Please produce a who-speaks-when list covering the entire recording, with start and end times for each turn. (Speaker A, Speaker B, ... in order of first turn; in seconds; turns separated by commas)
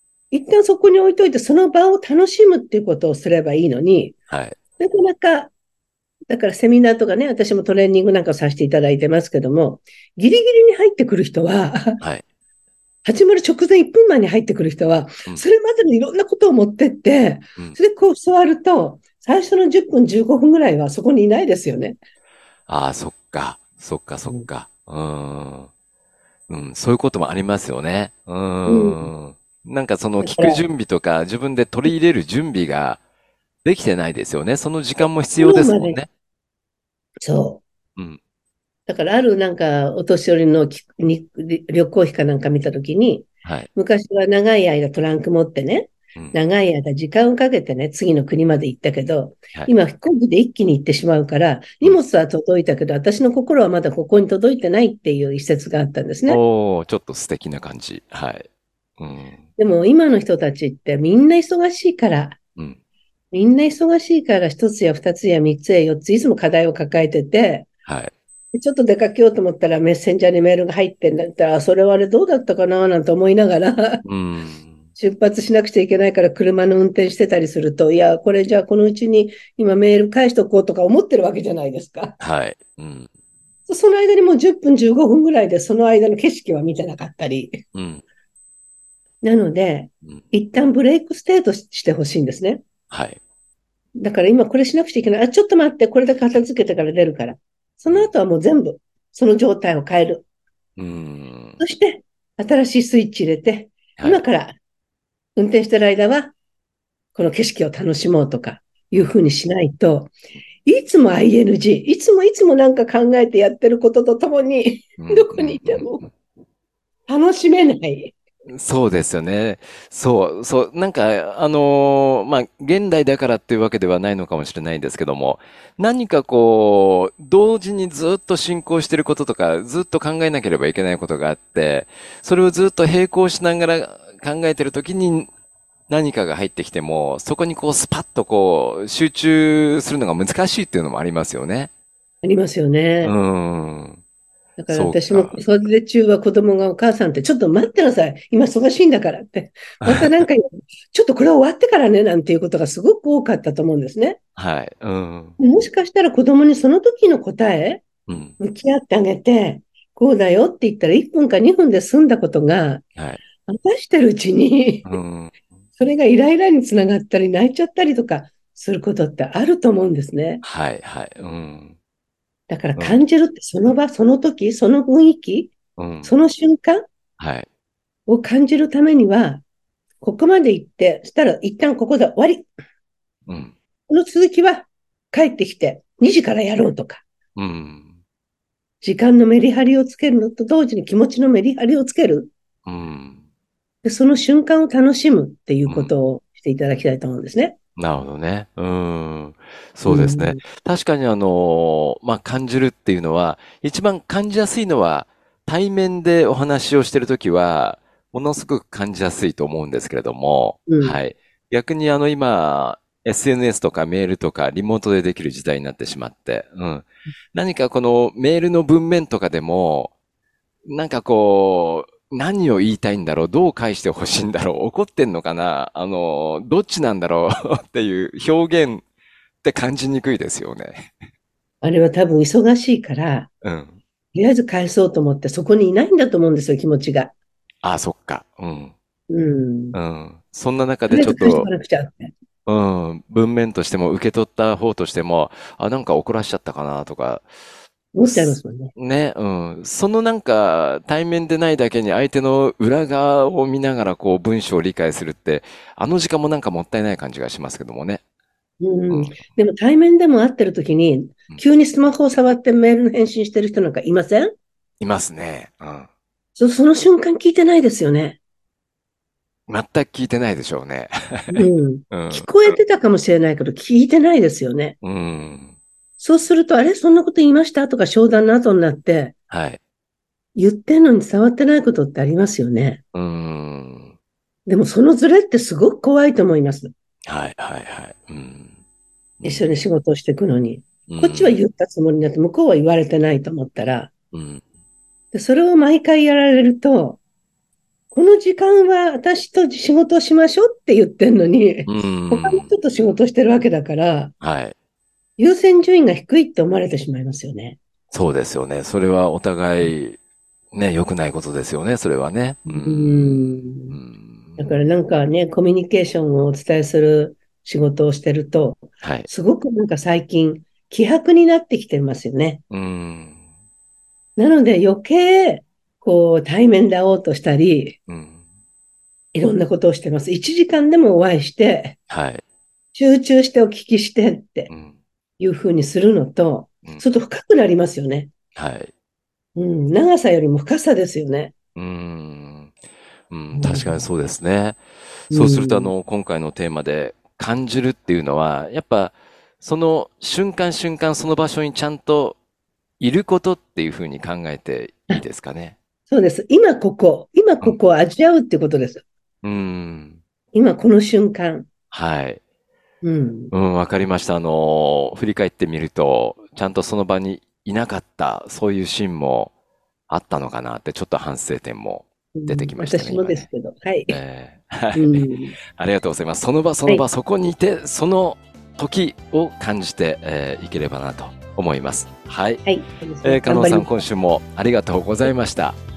Speaker A: 0.3-4.2, Speaker B: 4.3-4.6, Speaker A: 4.8-5.5, Speaker A: 6.3-12.0, Speaker A: 13.1-22.0, Speaker B: 22.7-25.7, Speaker B: 26.5-33.0, Speaker A: 28.7-29.1, Speaker A: 30.2-30.6, Speaker B: 33.6-36.1, Speaker A: 35.4-36.0, Speaker A: 37.2-37.6, Speaker A: 38.9-56.4, Speaker B: 43.4-43.7, Speaker B: 56.3-58.5, Speaker B: 59.0-59.4, Speaker A: 59.6-62.4, Speaker A: 63.3-67.7, Speaker B: 67.8-68.1, Speaker A: 68.5-74.0, Speaker B: 74.0-74.8, Speaker A: 75.0-82.2, Speaker B: 82.2-83.1, Speaker A: 83.7-87.6, Speaker B: 87.8-88.0, Speaker A: 89.2-92.6, Speaker B: 92.9-93.2, Speaker A: 94.0-100.2, Speaker B: 100.8-101.6, Speaker A: 101.6-104.6, Speaker B: 104.0-104.2, Speaker A: 105.4-106.3, Speaker A: 107.2-110.1, Speaker A: 110.7-116.0, Speaker B: 115.0-116.0, Speaker A: 117.1-118.2, Speaker B: 118.5-135.3, Speaker B: 135.9-141.7, Speaker A: 142.2-143.1, Speaker B: 143.0-144.0, Speaker A: 144.6-154.2, Speaker B: 144.7-145.4, Speaker B: 149.8-150.3, Speaker B: 154.4-155.4, Speaker A: 155.4-157.8, Speaker B: 158.1-158.4, Speaker A: 158.4-162.8, Speaker A: 163.4-165.0, Speaker B: 164.8-165.4, Speaker A: 165.8-170.4, Speaker B: 170.4-171.8, Speaker A: 172.5-176.8, Speaker B: 175.8-176.2, Speaker B: 177.2-177.5, Speaker A: 178.1-179.4, Speaker A: 180.0-182.5, Speaker B: 183.3-183.5, Speaker A: 183.9-187.0, Speaker B: 187.4-187.9, Speaker A: 188.8-192.3, Speaker B: 192.7-193.2, Speaker A: 193.8-197.6, Speaker B: 195.7-195.9, Speaker B: 197.8-219.9, Speaker A: 199.9-200.4, Speaker A: 210.7-211.0, Speaker B: 220.7-228.8, Speaker B: 229.4-230.9, Speaker A: 231.6-233.3, Speaker B: 233.4-233.8, Speaker A: 234.1-237.1, Speaker B: 237.6-238.7, Speaker A: 239.1-239.8, Speaker B: 239.7-241.5, Speaker A: 240.9-242.1, Speaker B: 242.5-247.2, Speaker A: 247.9-248.7, Speaker B: 248.0-258.0, Speaker A: 258.6-264.3, Speaker B: 258.9-259.3, Speaker B: 264.8-265.9, Speaker A: 266.4-268.2, Speaker B: 269.5-272.6, Speaker A: 271.3-274.8, Speaker B: 274.8-275.6, Speaker A: 276.0-279.1, Speaker B: 279.3-279.6, Speaker A: 280.4-282.8, Speaker B: 282.9-283.9, Speaker A: 284.5-286.7, Speaker B: 287.1-288.6, Speaker B: 289.2-289.5, Speaker A: 289.2-293.9, Speaker B: 290.9-291.4, Speaker B: 294.1-294.4, Speaker A: 295.1-297.0, Speaker A: 297.9-304.1, Speaker B: 301.7-302.5, Speaker B: 304.2-304.6, Speaker A: 305.2-307.6, Speaker B: 307.9-310.0, Speaker B: 310.5-314.6, Speaker A: 312.5-313.8, Speaker A: 314.4-322.4, Speaker B: 318.8-319.1, Speaker B: 322.5-323.2, Speaker A: 324.2-327.8, Speaker B: 327.9-328.2, Speaker A: 329.1-331.8, Speaker B: 331.9-332.2, Speaker A: 332.7-334.5, Speaker B: 334.5-334.8, Speaker A: 335.2-338.1, Speaker B: 338.4-338.7, Speaker A: 339.4-341.3, Speaker B: 341.6-342.5, Speaker B: 343.1-344.6, Speaker A: 343.3-343.8, Speaker B: 345.1-352.2, Speaker A: 345.1-345.7, Speaker B: 352.8-355.6, Speaker A: 355.9-358.8, Speaker B: 359.2-360.0, Speaker A: 360.3-361.5, Speaker B: 361.7-362.2, Speaker A: 362.8-363.3, Speaker B: 363.3-369.3, Speaker B: 369.9-373.3, Speaker A: 372.1-374.0, Speaker B: 373.9-382.4, Speaker A: 374.8-375.4, Speaker A: 382.4-383.8, Speaker B: 383.0-385.6